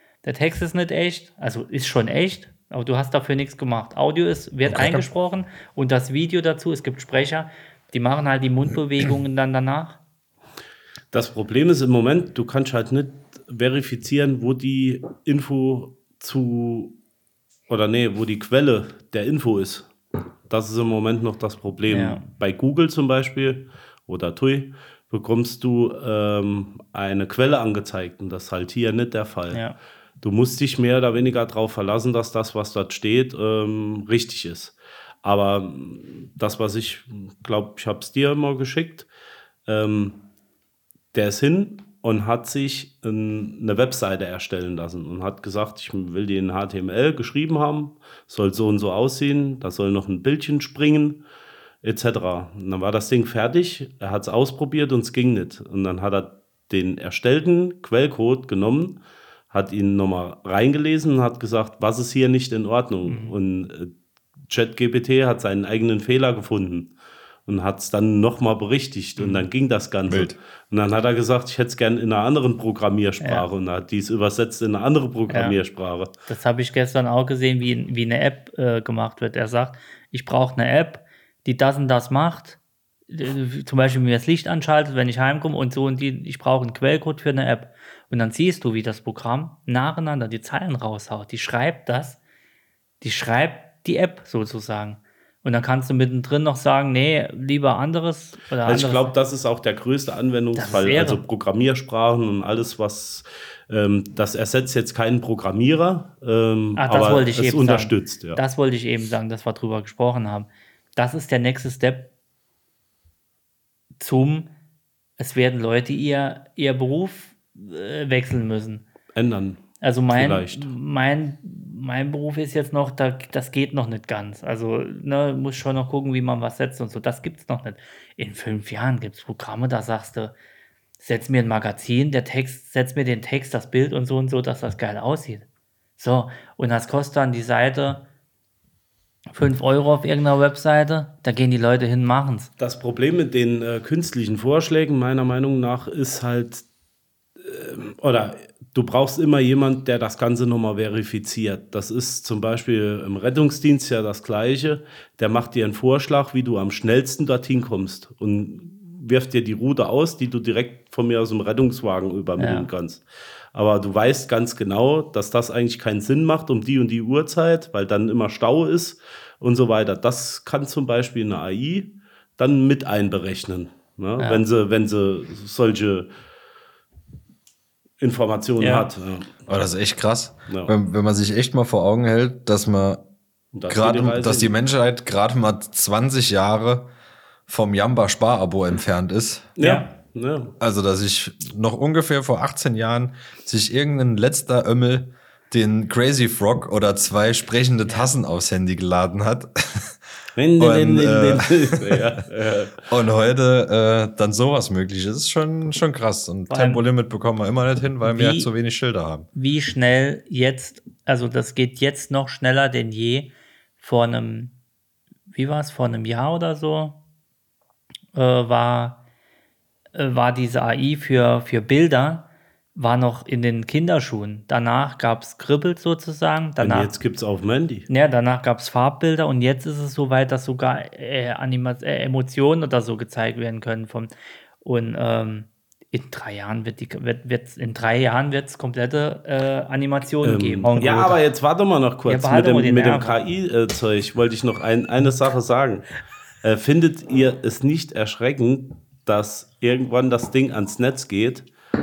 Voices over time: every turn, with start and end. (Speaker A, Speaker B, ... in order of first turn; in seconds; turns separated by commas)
Speaker A: 0.2-10.0, Speaker B: 4.7-5.1, Speaker C: 11.1-16.9, Speaker C: 17.7-19.9, Speaker C: 20.5-29.6, Speaker A: 21.9-22.2, Speaker A: 29.5-29.8, Speaker C: 30.2-39.1, Speaker C: 39.6-40.2, Speaker C: 41.1-51.2, Speaker C: 51.8-59.0, Speaker C: 59.5-63.9, Speaker A: 63.0-63.3, Speaker C: 64.5-66.9, Speaker C: 67.5-76.1, Speaker A: 69.2-69.5, Speaker B: 70.1-70.4, Speaker A: 73.2-73.5, Speaker A: 75.3-75.6, Speaker A: 76.3-92.2, Speaker A: 93.0-99.1, Speaker C: 98.7-108.4, Speaker A: 100.5-101.2, Speaker A: 106.8-112.1, Speaker A: 114.0-114.5, Speaker A: 115.2-118.8, Speaker C: 119.1-120.7, Speaker A: 119.8-130.3, Speaker A: 131.0-135.4, Speaker A: 136.0-138.0, Speaker A: 139.3-142.5, Speaker C: 142.6-146.6, Speaker C: 147.4-176.1, Speaker A: 162.4-162.7, Speaker A: 174.2-174.4, Speaker C: 178.0-179.4, Speaker A: 178.6-178.9, Speaker B: 179.5-183.1, Speaker C: 180.5-180.7, Speaker C: 183.5-184.5, Speaker B: 183.7-186.9, Speaker B: 187.5-189.6, Speaker C: 189.6-190.6, Speaker A: 189.6-189.9, Speaker B: 190.6-200.0, Speaker A: 197.8-198.1, Speaker C: 200.4-202.9, Speaker B: 200.6-202.2, Speaker B: 202.9-209.3, Speaker A: 206.5-206.8, Speaker A: 208.0-208.5, Speaker A: 209.3-214.5, Speaker A: 215.3-217.0, Speaker A: 218.1-219.0, Speaker A: 219.9-226.9, Speaker C: 226.6-227.9, Speaker A: 227.9-241.2, Speaker C: 240.2-245.9, Speaker A: 242.1-243.2, Speaker C: 246.4-251.5